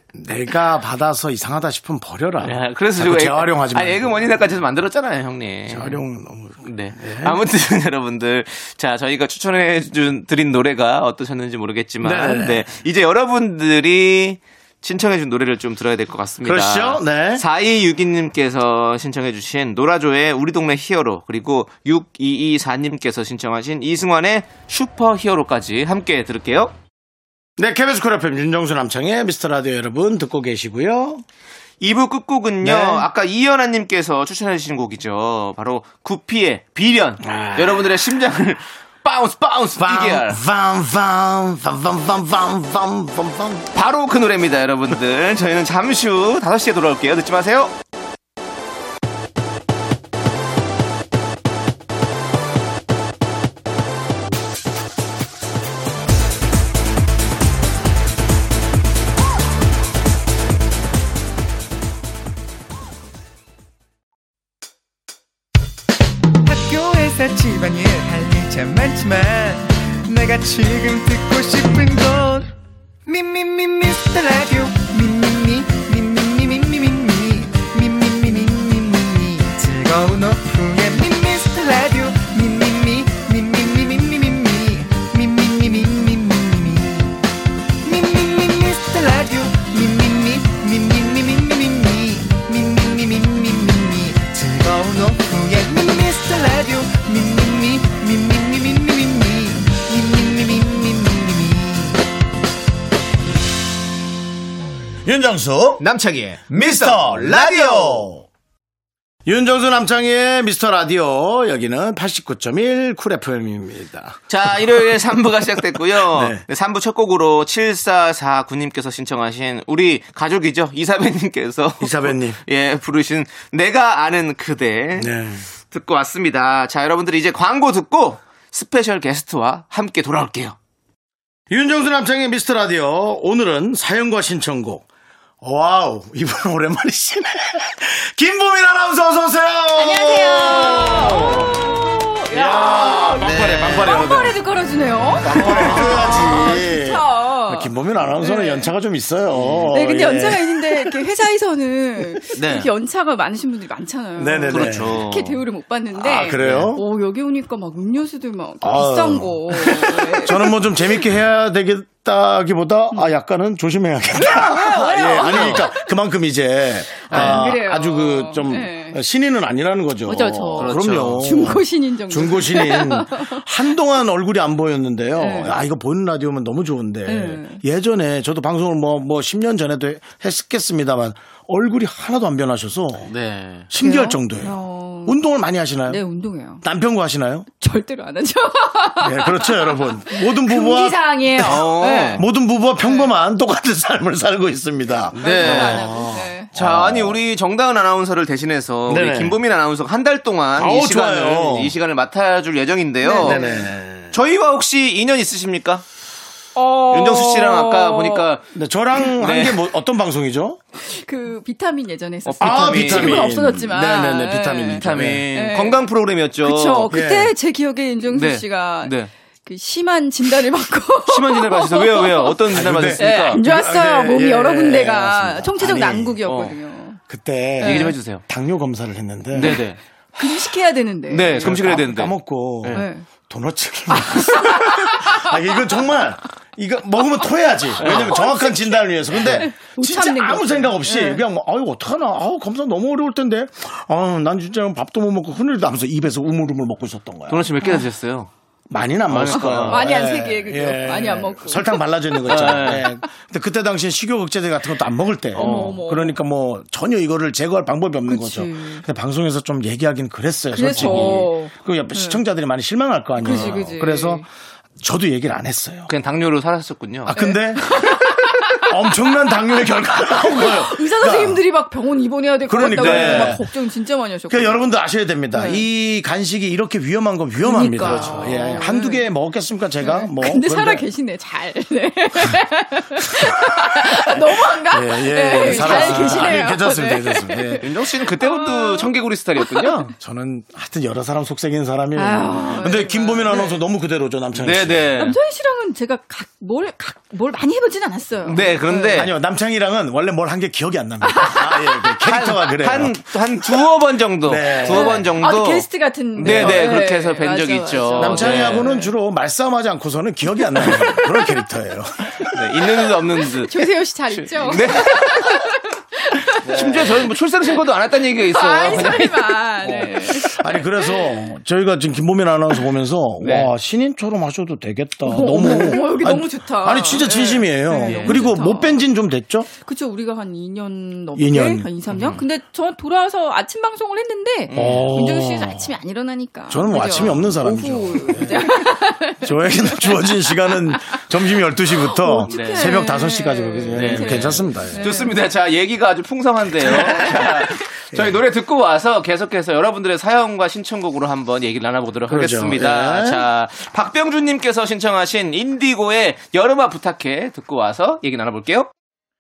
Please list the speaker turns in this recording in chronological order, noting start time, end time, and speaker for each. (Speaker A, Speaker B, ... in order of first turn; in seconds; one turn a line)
Speaker A: 0.1-4.3
Speaker B: 2.4-6.0
Speaker A: 5.7-7.4
Speaker B: 6.6-26.7
Speaker A: 12.0-12.6
Speaker A: 16.4-17.4
Speaker A: 27.6-31.2
Speaker B: 31.8-40.4
Speaker A: 32.6-33.1
Speaker A: 37.2-38.0
Speaker A: 39.8-43.7
Speaker B: 43.7-47.7
Speaker C: 66.4-72.5
Speaker C: 73.0-87.2
Speaker C: 87.8-102.0
Speaker A: 105.0-105.8
Speaker B: 105.8-108.2
Speaker A: 106.7-107.9
Speaker A: 109.2-114.8
Speaker B: 114.3-125.1
Speaker A: 116.0-116.4
Speaker A: 121.8-122.4
Speaker A: 125.0-125.5
Speaker B: 125.7-130.6
Speaker A: 131.5-134.8
Speaker A: 135.4-141.7
Speaker D: 139.8-148.7
Speaker A: 142.3-144.3
Speaker B: 143.2-144.0
Speaker A: 145.2-151.0
Speaker B: 145.3-145.9
Speaker B: 149.3-149.7
Speaker D: 149.7-161.0
Speaker B: 152.3-152.7
Speaker A: 154.2-155.0
Speaker B: 154.5-155.4
Speaker A: 155.9-156.8
Speaker B: 156.4-156.7
Speaker A: 158.6-183.1
Speaker D: 164.1-165.9
Speaker B: 165.1-165.7
Speaker D: 167.0-169.0
Speaker B: 167.1-167.4
Speaker D: 170.1-173.4
Speaker B: 170.6-171.3
Speaker D: 175.2-175.6
Speaker D: 177.1-177.6
Speaker B: 183.1-183.7
Speaker A: 183.7-186.0
Speaker D: 183.8-185.2
Speaker D: 185.9-186.6
Speaker A: 186.6-187.5
Speaker D: 187.6-192.2
Speaker A: 189.0-197.2
Speaker B: 191.4-192.2
Speaker D: 192.8-193.1
Speaker B: 195.1-196.0
Speaker D: 195.2-196.5
Speaker B: 196.5-203.4
Speaker A: 198.9-199.4
Speaker A: 200.5-201.7
Speaker D: 203.0-203.7
Speaker A: 203.2-204.2
Speaker B: 204.1-205.8
Speaker D: 206.6-208.3
Speaker B: 206.9-208.5
Speaker A: 208.5-210.6
Speaker B: 209.2-209.6
Speaker D: 210.8-215.9
Speaker B: 212.2-213.3
Speaker A: 212.4-215.2
Speaker B: 214.8-216.9
Speaker D: 216.4-218.9
Speaker A: 216.9-217.3
Speaker B: 218.1-219.1
Speaker D: 219.4-227.0
Speaker B: 221.1-223.4
Speaker A: 222.5-226.2
Speaker B: 226.2-226.6
Speaker A: 227.1-229.6
Speaker D: 227.6-227.9
Speaker B: 227.6-228.2
Speaker B: 229.3-229.8
Speaker D: 229.4-229.6
Speaker D: 230.2-231.6
Speaker B: 231.1-232.8
Speaker A: 231.4-247.5
Speaker D: 232.7-233.1
Speaker D: 234.0-235.6
Speaker D: 237.8-241.2
Speaker B: 237.8-238.2
Speaker B: 247.3-248.3
Speaker A: 248.7-264.2
Speaker B: 249.1-249.8
Speaker D: 249.3-252.9
Speaker B: 252.3-252.8
Speaker D: 255.3-256.2
Speaker B: 255.3-255.8
Speaker D: 258.1-258.8
Speaker D: 260.5-262.2
Speaker B: 260.7-261.2
Speaker D: 263.2-264.2
Speaker B: 263.2-263.6
Speaker A: 264.8-265.9
Speaker B: 265.9-267.1
Speaker A: 267.0-271.4
Speaker D: 267.1-268.7
Speaker D: 270.0-274.7
Speaker A: 272.5-273.4
Speaker B: 272.6-273.4
Speaker A: 274.3-280.8
Speaker D: 275.3-275.6
Speaker D: 277.4-279.0
Speaker B: 277.8-278.7
Speaker D: 279.8-288.9
Speaker A: 283.2-287.7
Speaker B: 285.3-286.4
Speaker B: 287.6-289.9
Speaker A: 290.0-294.9
Speaker D: 291.9-293.6
Speaker B: 294.3-295.2
Speaker D: 295.0-299.0
Speaker B: 298.2-299.1
Speaker A: 298.9-302.9
Speaker D: 301.0-302.0
Speaker B: 302.0-308.7
Speaker A: 304.2-305.1
Speaker D: 304.6-308.9
Speaker A: 306.2-306.7
Speaker A: 308.0-312.6
Speaker D: 310.6-311.3
Speaker B: 312.3-315.4
Speaker D: 313.2-317.0
Speaker A: 316.4-317.0
Speaker B: 316.4-319.9
Speaker D: 318.3-321.0
Speaker A: 319.6-329.5
Speaker B: 323.2-323.5
Speaker D: 325.0-328.8
Speaker B: 327.8-328.3
Speaker D: 329.6-341.0
Speaker A: 331.1-331.7
Speaker B: 331.9-332.2
Speaker B: 334.5-334.9
Speaker A: 334.5-335.7
Speaker A: 336.5-344.9
Speaker D: 341.7-345.1
Speaker B: 342.3-342.8
Speaker B: 343.7-358.7
Speaker D: 346.7-347.3
Speaker A: 352.1-353.2